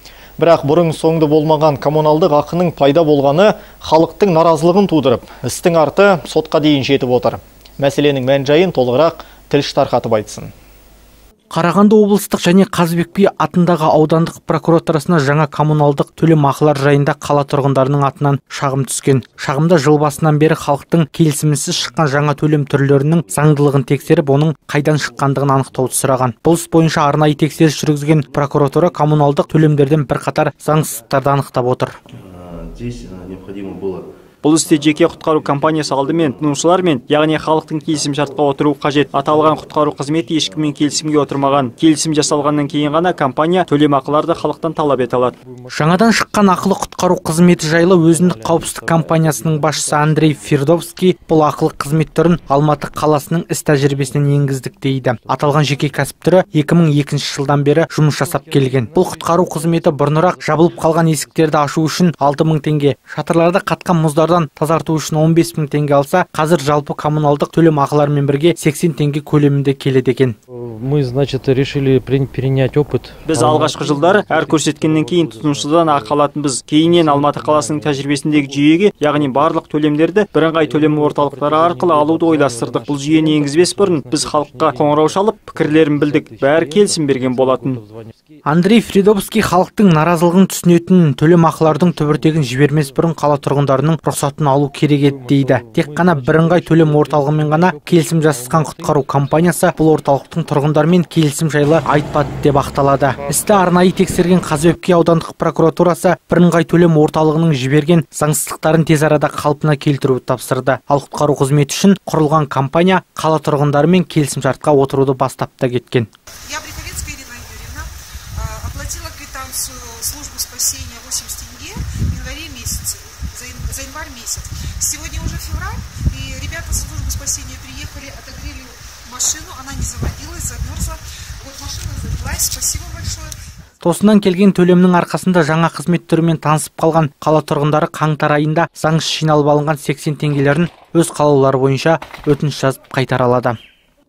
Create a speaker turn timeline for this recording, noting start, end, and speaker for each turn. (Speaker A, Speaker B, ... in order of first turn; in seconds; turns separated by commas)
Speaker A: 0.4-10.5, Speaker B: 11.5-31.9, Speaker C: 25.2-26.0, Speaker C: 28.1-30.0, Speaker C: 32.2-43.4, Speaker D: 34.4-45.4, Speaker E: 44.1-44.4, Speaker C: 44.1-44.6, Speaker E: 44.9-50.9, Speaker B: 45.7-70.4, Speaker E: 53.9-55.8, Speaker E: 58.1-62.1, Speaker E: 70.5-76.2, Speaker D: 73.3-87.8, Speaker E: 76.8-79.6, Speaker E: 80.6-88.4, Speaker B: 88.5-116.1, Speaker E: 91.6-93.1, Speaker E: 95.0-99.4, Speaker F: 116.5-133.3, Speaker B: 133.8-143.6